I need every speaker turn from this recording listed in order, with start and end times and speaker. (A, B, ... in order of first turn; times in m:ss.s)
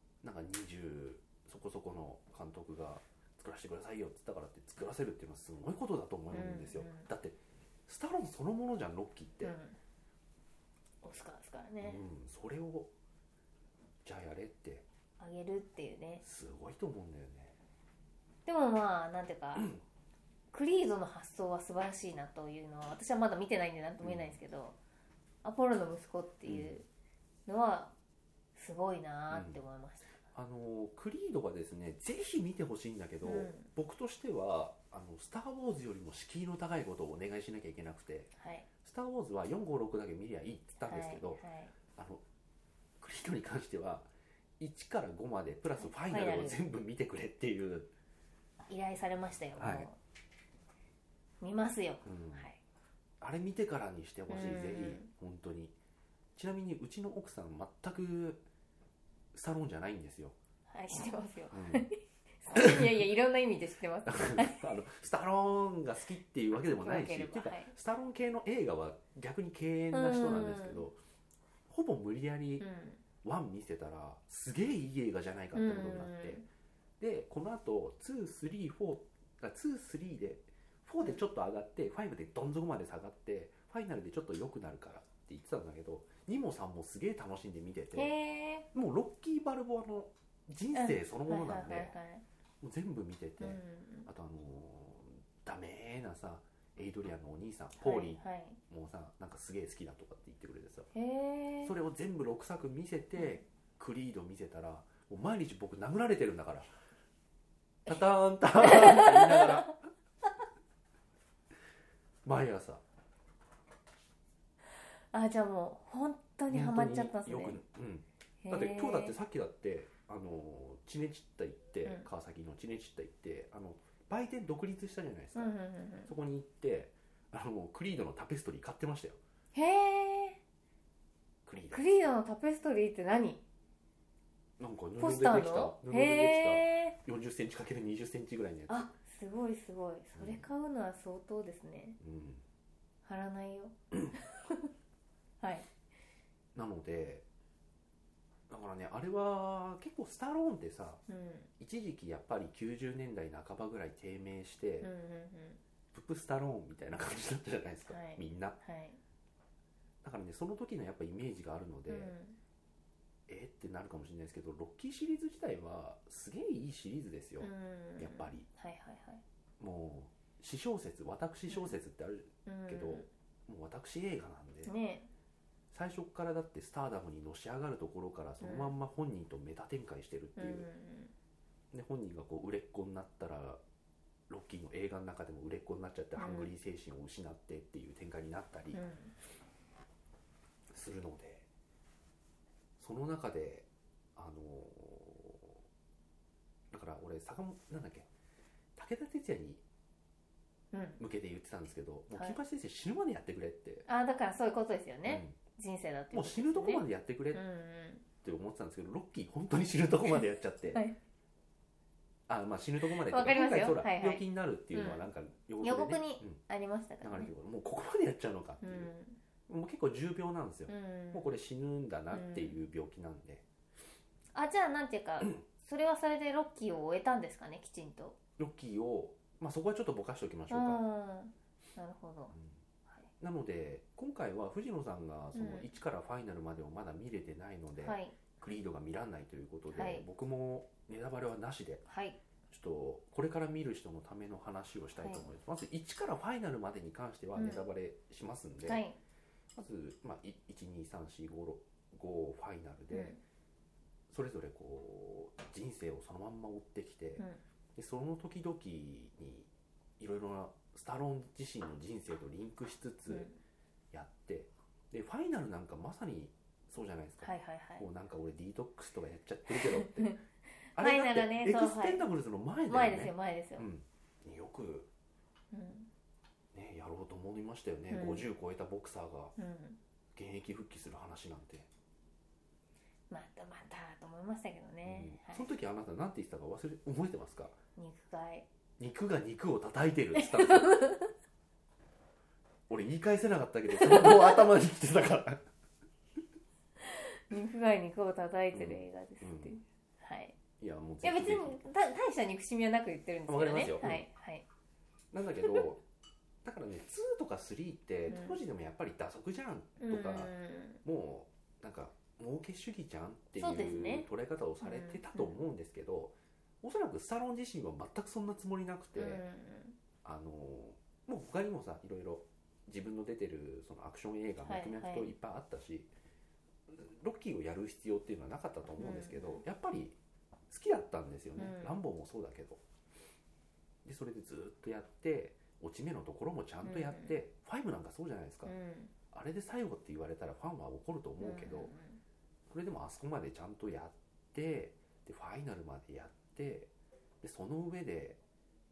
0:00.2-0:09.6 A
0:06.3-0:07.1 B
0:09.4-0:09.8 B
0:11.0-0:12.0 B
0:11.8-0:12.9 A
0:14.0-0:14.9 A
0:15.2-0:16.2 B
0:16.2-0:17.6 A
0:18.5-0:19.7 B
0:19.6-0:19.8 A
0:20.5-0:24.8 B
0:24.0-0:24.4 A
0:25.4-0:26.9 B
0:26.4-0:26.8 A
0:27.5-0:27.9 B
0:28.6-0:30.1 B
0:29.3-0:29.6 A
0:30.3-0:38.3 A
0:33.2-0:33.7 B
0:38.4-0:38.7 B
0:38.8-0:41.4 A
0:40.8-0:41.7 B
0:42.0-0:42.2 A
0:43.0-0:44.1 A
0:44.6-0:47.9 A
0:45.8-0:46.6 B
0:48.7-0:50.0 B
0:49.6-0:49.9 A
0:51.4-0:52.6 B
0:52.0-0:52.5 A
0:53.2-0:55.8 A
0:54.3-0:55.1 B
0:56.4-0:58.4 A
0:59.3-1:00.4 A
1:00.7-1:04.7 B
1:01.5-1:01.9 A
1:02.6-1:02.9 A
1:04.1-1:11.0 A
1:06.7-1:07.7 B
1:09.9-1:10.8 B
1:11.7-1:12.7 A
1:12.6-1:13.0 B
1:13.2-1:16.5 A
1:15.5-1:16.4 B
1:17.0-1:28.2 A
1:27.9-1:28.7 B
1:28.7-1:32.0 A
1:30.7-1:32.2 B
1:32.6-1:40.9 A
1:33.4-1:34.1 B
1:37.8-1:38.6 B
1:40.9-1:41.7 B
1:41.6-1:46.7 A
1:47.9-1:49.8 A
1:48.6-1:49.7 B
1:52.2-1:52.8 A
1:55.1-1:57.6 B
1:56.5-2:05.5 A
1:58.4-1:59.2 B
2:05.4-2:06.1 B
2:06.1-2:09.2 A
2:09.5-2:10.4 B
2:11.5-2:11.8 A
2:11.7-2:13.4 B
2:14.6-2:18.9 A
2:15.0-2:17.0 B
2:18.7-2:22.0 B
2:20.2-2:20.5 A
2:22.0-2:22.4 A
2:23.0-2:24.7 B
2:25.4-2:25.7 B
2:26.6-2:27.2 A
2:28.5-2:31.0 A
2:31.1-2:31.5 B
2:31.6-2:34.9 A
2:34.8-2:35.6 B
2:35.9-2:38.6 A
2:37.9-2:39.0 B
2:40.0-2:42.2 A
2:41.9-2:42.4 B
2:43.3-2:48.5 A
2:47.4-2:49.2 B
2:49.6-2:54.7 A
2:51.5-2:51.8 B
2:52.5-2:53.1 B
2:54.7-2:55.1 B
2:55.7-3:00.7 A
2:58.4-2:58.7 B
3:00.4-3:01.1 B
3:01.7-3:03.6 A
3:04.3-3:08.8 A
3:06.2-3:06.5 B
3:08.7-3:09.1 B
3:10.7-3:11.5 A
3:12.8-3:15.6 A
3:16.7-3:18.1 A
3:18.8-3:19.6 A
3:20.7-3:21.0 B
3:21.0-3:23.9 A
3:22.1-3:22.4 B
3:23.9-3:28.1 B
3:25.0-3:25.4 A
3:26.1-3:27.4 A
3:28.2-3:30.8 A
3:30.1-3:31.0 B
3:32.3-3:36.4 A
3:32.9-3:35.0 B
3:35.6-3:37.3 B
3:37.0-3:38.9 A
3:38.6-3:39.2 B
3:39.5-3:43.4 A
3:40.7-3:41.3 B
3:42.1-3:42.6 B
3:44.3-3:48.2 B
3:48.4-3:50.8 A
3:50.5-3:52.3 B
3:52.3-3:52.6 A
3:53.2-4:01.8 A
3:55.4-3:55.7 B
3:57.8-3:58.2 B
3:59.7-4:00.0 B
4:01.9-4:02.2 B
4:02.5-4:08.8 A
4:05.0-4:05.3 B
4:07.4-4:07.6 B
4:08.6-4:09.0 B
4:09.6-4:13.2 A
4:12.9-4:13.2 B
4:14.1-4:17.2 A
4:17.8-4:23.3 A
4:23.1-4:23.4 B
4:23.9-4:30.2 A
4:27.2-4:27.9 B
4:29.5-4:30.2 B
4:30.8-4:32.0 B
4:30.8-4:34.9 A
4:32.7-4:33.7 B
4:35.5-4:35.9 B
4:36.5-4:39.4 A
4:37.9-4:38.3 B
4:39.4-4:39.8 B
4:40.2-4:41.7 A
4:43.1-4:45.5 B
4:44.8-4:47.6 A
4:47.8-4:48.5 B
4:48.8-4:51.0 A
4:50.2-4:51.1 B
4:52.7-4:55.4 A
4:53.8-4:54.5 B
4:56.8-5:00.4 B
4:58.5-4:59.6 A
5:00.6-5:01.6 A
5:01.0-5:04.5 B
5:03.3-5:04.1 A
5:05.1-5:05.8 A
5:06.4-5:19.2 A
5:08.1-5:08.4 B
5:09.8-5:10.8 B
5:13.4-5:14.1 B
5:14.6-5:15.4 B
5:19.0-5:19.8 B
5:20.0-5:25.9 A
5:24.4-5:25.1 B
5:26.7-5:30.0 A
5:28.8-5:29.4 B
5:30.5-5:32.6 A
5:31.4-5:31.8 B
5:33.8-5:38.6 A
5:36.6-5:37.2 B
5:38.4-5:38.9 B
5:39.1-5:41.7 A
5:41.2-5:42.0 B
5:42.5-5:46.7 A
5:47.2-5:48.2 A